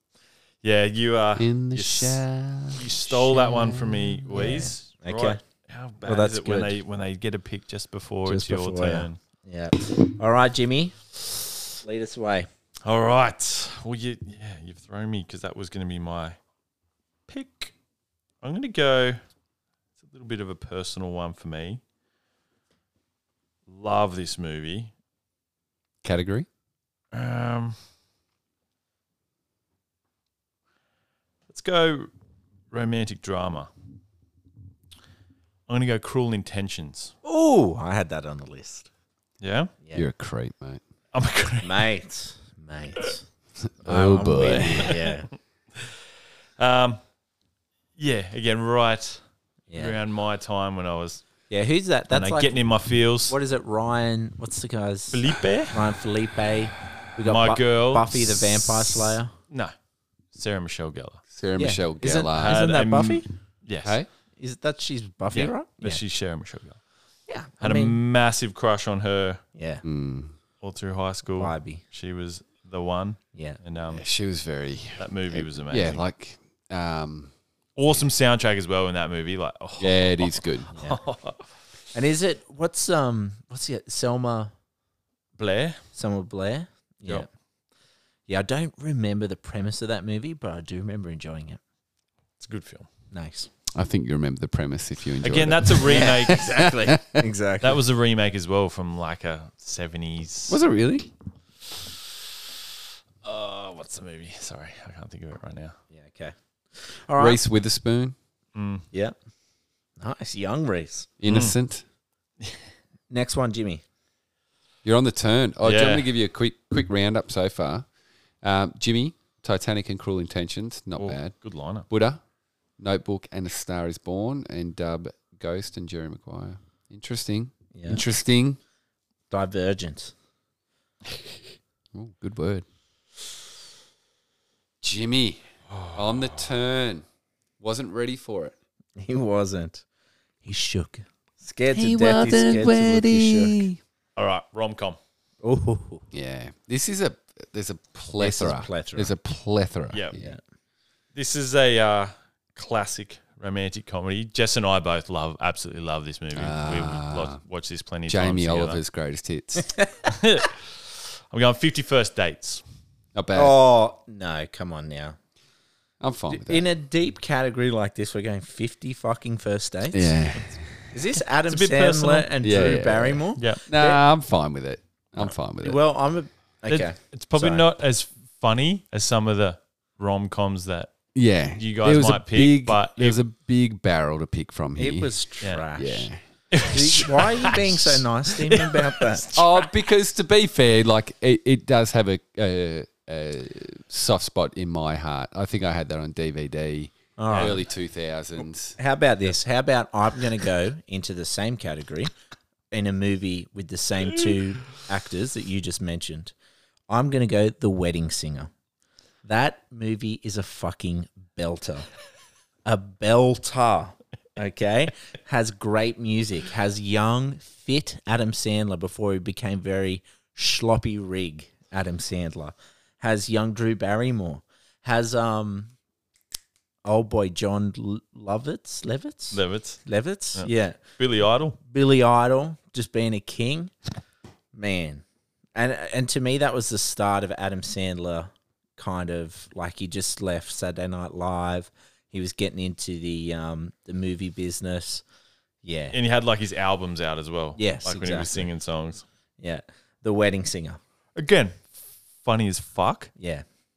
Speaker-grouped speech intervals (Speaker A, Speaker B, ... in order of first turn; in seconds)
Speaker A: 0.6-9.2, 12.8-16.4, 17.3-17.7, 18.4-19.2, 20.0-21.8, 23.7-24.9, 27.1-27.8, 31.5-32.1, 32.7-33.7, 35.7-37.1, 39.4-39.7, 41.1-41.9, 44.8-45.1, 45.8-46.0, 46.6-47.0, 48.0-49.2, 49.7-51.2, 52.1-53.4, 55.1-55.8, 57.2-59.0, 60.3-61.2, 62.4-64.0, 65.3-66.8, 67.6-69.4, 70.6-74.0, 75.0-76.0, 77.8-81.5, 85.4-85.8, 92.4-92.9, 95.2-97.1, 97.6-100.6, 103.2-105.8, 108.5-108.8, 111.3-111.6, 115.6-116.1, 121.0-121.9, 135.7-136.4, 144.2-145.0, 149.9-150.2, 151.2-158.8, 160.1-162.6, 171.5-172.3, 173.4-173.6, 176.7-181.0, 181.6-183.2, 186.5-189.7, 197.3-197.6, 229.3-229.8, 230.3-231.6, 245.9-249.0, 251.2-253.1
Speaker B: 1.4-4.6, 26.0-26.5, 39.9-40.8, 43.6-45.0, 61.3-62.6, 63.8-64.1, 69.8-70.3, 73.9-77.3, 79.8-80.7, 93.7-97.2, 100.5-101.1, 107.2-108.2, 111.2-111.8, 114.8-117.9, 118.4-121.3, 121.9-122.2, 122.8-128.6, 131.9-132.7, 134.8-137.1, 137.6-138.6, 141.7-143.8, 146.1-150.4, 156.3-157.4, 158.1-159.8, 163.2-163.6, 166.0-166.7, 169.9-170.9, 172.4-175.8, 181.2-185.1, 185.8-186.2, 189.3-198.8
Speaker C: 4.3-5.4, 6.0-6.8, 8.2-11.0, 11.8-12.5, 37.2-38.9, 41.6-43.2, 43.8-45.3, 49.7-50.0, 51.5-52.6, 53.3-59.3, 61.6-63.3, 64.4-66.0, 67.3-68.0, 69.5-69.8, 71.3-71.8, 81.9-84.5, 85.9-87.3, 88.3-91.6, 93.1-93.5, 97.2-97.8, 105.9-107.4, 110.0-111.1, 113.1-113.8, 127.7-128.1, 129.3-130.1, 139.0-139.8, 140.4-143.7, 145.4-146.0, 148.1-149.1, 163.3-165.2, 166.3-170.3, 170.9-174.0, 175.6-177.6, 184.8-186.1, 186.7-189.3, 197.2-197.6, 198.8-202.1, 202.7-206.3, 206.9-208.5, 209.2-211.9, 212.7-225.7, 226.8-230.8, 231.6-233.7, 234.5-235.0, 235.6-245.0, 245.6-246.0, 247.6-248.5, 249.4-250.8, 253.2-253.4